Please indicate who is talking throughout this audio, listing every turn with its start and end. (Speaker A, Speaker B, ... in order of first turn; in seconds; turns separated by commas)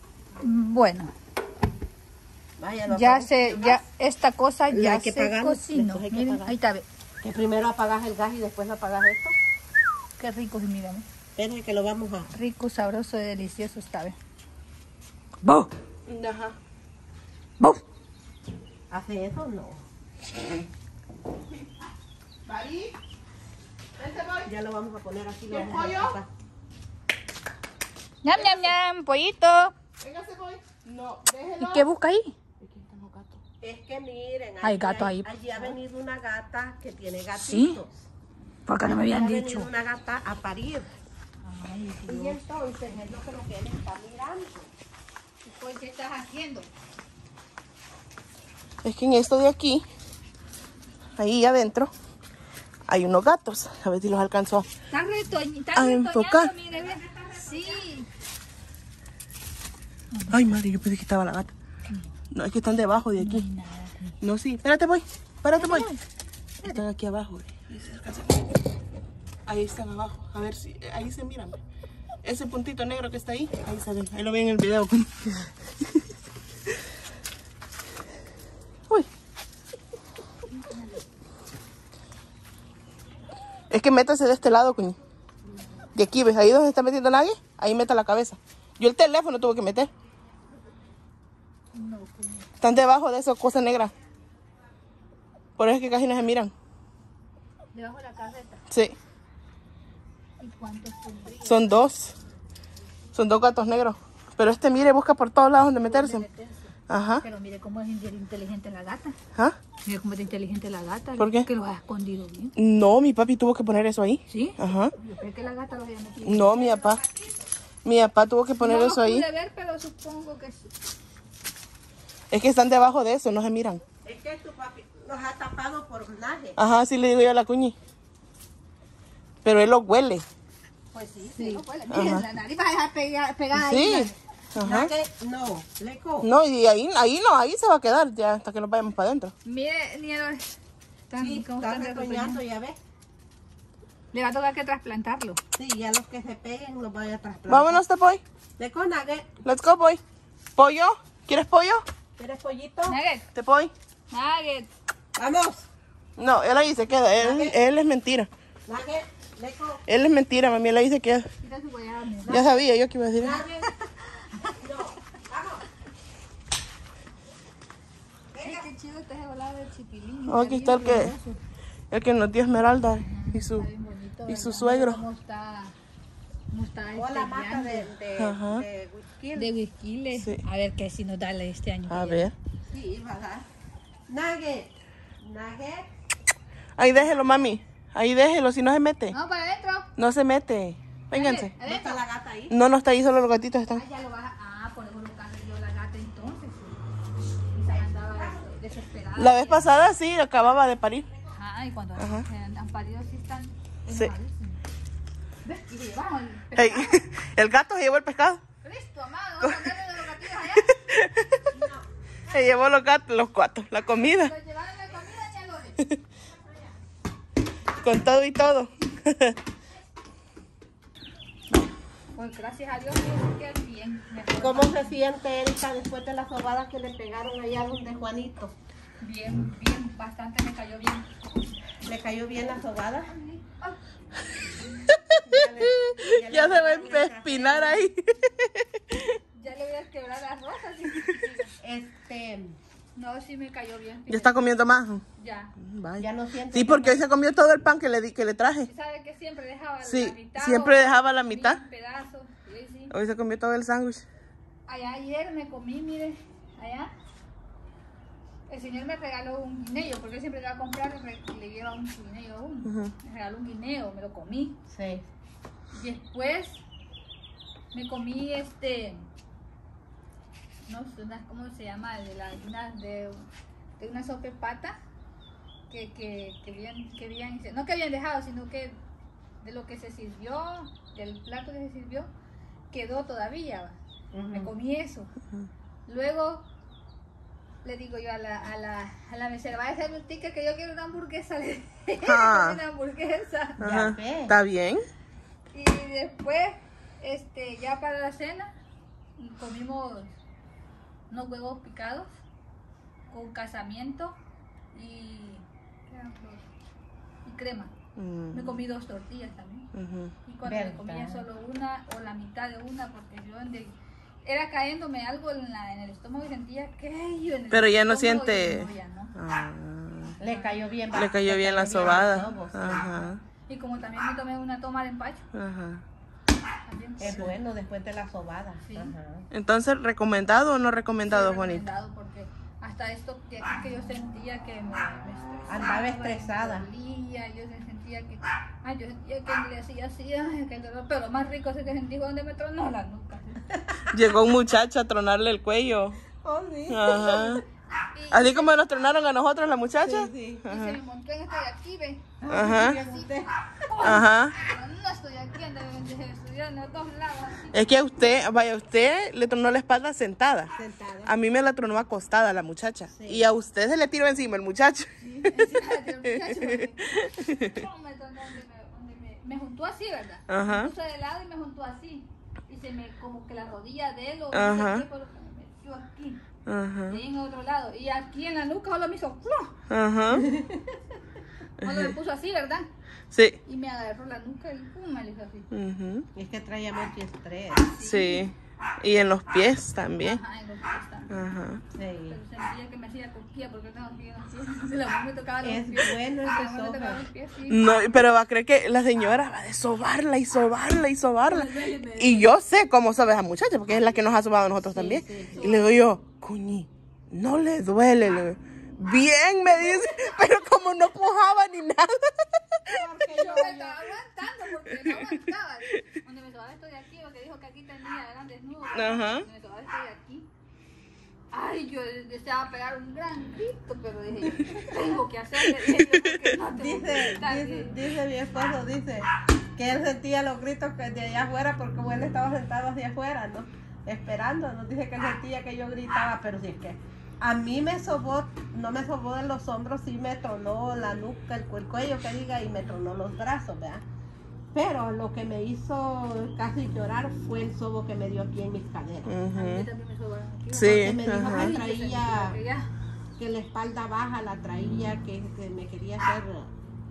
Speaker A: 0.4-1.1, Speaker B: 2.6-3.8, Speaker A: 2.9-6.8, Speaker B: 4.7-6.5, Speaker B: 7.2-9.3, Speaker A: 10.2-11.1, Speaker B: 11.4-12.3, Speaker A: 12.3-14.2, Speaker A: 15.4-15.7, Speaker C: 16.1-16.6, Speaker B: 18.9-19.8, Speaker C: 22.5-22.9, Speaker C: 24.0-24.5, Speaker B: 24.4-26.3, Speaker C: 25.5-26.1, Speaker A: 28.2-29.7, Speaker C: 30.0-31.9, Speaker A: 31.6-32.4, Speaker C: 32.6-33.4, Speaker B: 33.6-38.1, Speaker A: 34.6-35.8, Speaker A: 37.4-37.8, Speaker A: 38.7-39.7, Speaker B: 38.8-40.9, Speaker A: 41.4-42.4, Speaker B: 42.1-44.7, Speaker A: 45.4-46.7, Speaker C: 48.8-49.9, Speaker C: 51.2-51.9, Speaker C: 52.9-54.7, Speaker A: 54.9-58.1, Speaker C: 55.8-56.5, Speaker A: 60.1-60.6, Speaker C: 60.3-61.5, Speaker C: 62.3-63.5, Speaker A: 63.2-64.2, Speaker C: 64.2-65.9, Speaker A: 65.6-66.0, Speaker C: 66.6-68.5, Speaker C: 69.5-71.5, Speaker C: 72.2-75.9, Speaker A: 80.6-81.0, Speaker C: 83.7-85.0, Speaker C: 86.0-89.9, Speaker A: 91.7-92.5, Speaker C: 92.6-93.9, Speaker C: 95.6-96.5, Speaker A: 97.7-98.6, Speaker C: 98.7-99.0, Speaker A: 100.4-101.8, Speaker C: 101.4-102.2, Speaker C: 103.1-106.2, Speaker A: 105.8-109.2, Speaker C: 106.9-107.2, Speaker A: 109.9-112.5, Speaker C: 111.2-111.5, Speaker C: 112.6-114.9, Speaker A: 114.3-117.0, Speaker C: 116.2-117.0, Speaker C: 117.8-119.3, Speaker A: 118.6-120.7, Speaker C: 122.3-123.8, Speaker B: 124.0-126.6, Speaker C: 126.6-127.8, Speaker C: 129.4-130.2, Speaker A: 130.9-134.2, Speaker B: 131.3-131.6, Speaker C: 131.9-132.3, Speaker C: 133.5-134.9, Speaker B: 134.6-136.3, Speaker C: 136.2-139.3, Speaker A: 139.4-140.5, Speaker A: 141.1-142.4, Speaker B: 141.2-142.8, Speaker A: 144.1-145.4, Speaker B: 145.6-147.8, Speaker C: 147.5-148.2, Speaker B: 148.6-149.3, Speaker C: 149.4-150.0, Speaker C: 150.6-151.8, Speaker B: 152.2-153.0, Speaker A: 152.9-153.3, Speaker C: 153.3-153.7, Speaker A: 154.1-154.7, Speaker B: 155.2-155.7, Speaker C: 156.2-158.3, Speaker B: 157.2-157.6, Speaker B: 158.7-159.8, Speaker C: 159.9-161.3, Speaker A: 161.4-162.5, Speaker C: 162.3-163.4, Speaker B: 163.2-163.9, Speaker A: 164.2-164.6, Speaker B: 164.5-165.7, Speaker B: 168.3-168.7, Speaker A: 168.4-171.4, Speaker C: 170.3-171.1, Speaker C: 171.9-173.7, Speaker A: 173.0-175.8, Speaker C: 174.3-175.0, Speaker A: 176.5-177.9, Speaker B: 176.9-179.5, Speaker C: 178.2-178.7, Speaker A: 179.3-182.3, Speaker C: 180.2-180.4, Speaker C: 181.9-182.3, Speaker B: 182.7-183.5, Speaker B: 184.1-184.7, Speaker B: 185.2-185.9, Speaker C: 186.8-189.2, Speaker A: 189.1-189.9, Speaker C: 190.0-191.5, Speaker A: 191.1-192.0, Speaker B: 191.6-192.6, Speaker C: 192.5-193.8, Speaker A: 193.7-196.8, Speaker A: 197.5-199.7, Speaker B: 197.7-198.6, Speaker C: 199.2-201.1, Speaker A: 201.3-204.6, Speaker C: 202.0-202.3, Speaker A: 205.4-207.1, Speaker C: 206.6-208.4, Speaker A: 208.6-210.8, Speaker C: 209.4-209.7, Speaker C: 210.7-211.4, Speaker B: 211.5-211.8, Speaker C: 212.3-214.3, Speaker A: 213.9-215.8, Speaker C: 217.8-219.4, Speaker A: 222.1-225.0, Speaker B: 224.4-228.5, Speaker A: 229.0-231.1, Speaker B: 231.8-233.1, Speaker A: 233.1-233.8, Speaker C: 234.9-239.2, Speaker B: 235.2-237.9, Speaker A: 236.3-237.1, Speaker A: 239.3-241.5, Speaker B: 241.6-242.6, Speaker A: 243.0-244.4, Speaker C: 244.1-245.0, Speaker A: 245.2-245.6, Speaker C: 245.6-248.7, Speaker B: 246.0-247.1, Speaker A: 248.7-252.9, Speaker C: 249.8-251.6, Speaker C: 252.9-254.1, Speaker A: 254.7-256.9, Speaker A: 258.5-264.6, Speaker C: 262.6-262.9, Speaker B: 264.7-265.0, Speaker A: 265.7-266.6, Speaker A: 267.7-269.1, Speaker A: 270.7-273.3, Speaker A: 273.8-274.8, Speaker A: 275.7-278.8, Speaker A: 279.4-282.1, Speaker A: 282.7-283.8, Speaker B: 284.1-284.5, Speaker A: 284.3-285.1, Speaker A: 285.9-286.4, Speaker A: 287.6-293.6, Speaker C: 292.0-292.6, Speaker C: 293.6-294.8, Speaker B: 293.6-294.4, Speaker A: 295.5-298.5, Speaker A: 299.2-300.1, Speaker A: 301.1-302.1, Speaker A: 303.1-304.1, Speaker A: 304.7-306.4, Speaker A: 307.2-307.7, Speaker C: 308.0-308.6, Speaker A: 308.3-309.7, Speaker C: 309.7-310.1, Speaker A: 310.2-319.1, Speaker B: 310.4-311.3, Speaker C: 317.5-320.1, Speaker A: 320.2-320.6, Speaker B: 320.2-323.0, Speaker C: 320.9-323.2, Speaker A: 323.4-325.2, Speaker C: 325.3-325.8, Speaker A: 326.6-327.4, Speaker B: 327.0-329.3, Speaker A: 328.6-328.9, Speaker C: 329.3-331.6, Speaker A: 331.1-344.1, Speaker B: 335.5-336.7, Speaker B: 343.5-343.8, Speaker C: 343.9-346.0, Speaker B: 346.1-347.4, Speaker C: 346.7-347.4, Speaker A: 347.9-349.0, Speaker C: 348.1-350.8, Speaker B: 349.8-350.5, Speaker A: 350.5-357.8, Speaker B: 352.2-353.3, Speaker C: 352.3-352.8, Speaker C: 353.8-354.4, Speaker C: 357.5-360.5, Speaker B: 360.5-361.2, Speaker C: 361.0-367.5, Speaker B: 362.9-363.3, Speaker A: 365.0-376.2, Speaker C: 370.3-370.7, Speaker C: 374.3-374.9, Speaker C: 376.5-377.0, Speaker A: 376.9-379.6, Speaker C: 379.7-380.3, Speaker B: 380.1-380.6, Speaker C: 381.6-381.9, Speaker A: 381.6-382.7, Speaker C: 383.1-383.4, Speaker A: 383.4-385.5, Speaker C: 385.5-386.1, Speaker B: 386.1-387.7, Speaker A: 387.7-388.3, Speaker C: 387.8-390.2, Speaker A: 390.0-391.3, Speaker C: 391.1-391.6, Speaker B: 391.7-392.2, Speaker A: 392.1-397.8, Speaker B: 395.4-397.0, Speaker C: 397.5-412.8, Speaker A: 401.3-402.3, Speaker B: 404.7-405.6, Speaker A: 405.4-405.8, Speaker A: 409.7-410.1, Speaker B: 412.7-414.0, Speaker A: 413.1-420.3, Speaker C: 414.6-415.2, Speaker C: 418.7-419.3, Speaker A: 421.3-427.8, Speaker C: 425.4-426.3, Speaker B: 426.3-443.8, Speaker B: 444.5-449.2, Speaker C: 449.1-449.7, Speaker A: 449.3-452.7, Speaker C: 450.5-451.6, Speaker B: 450.6-452.4, Speaker B: 453.2-456.5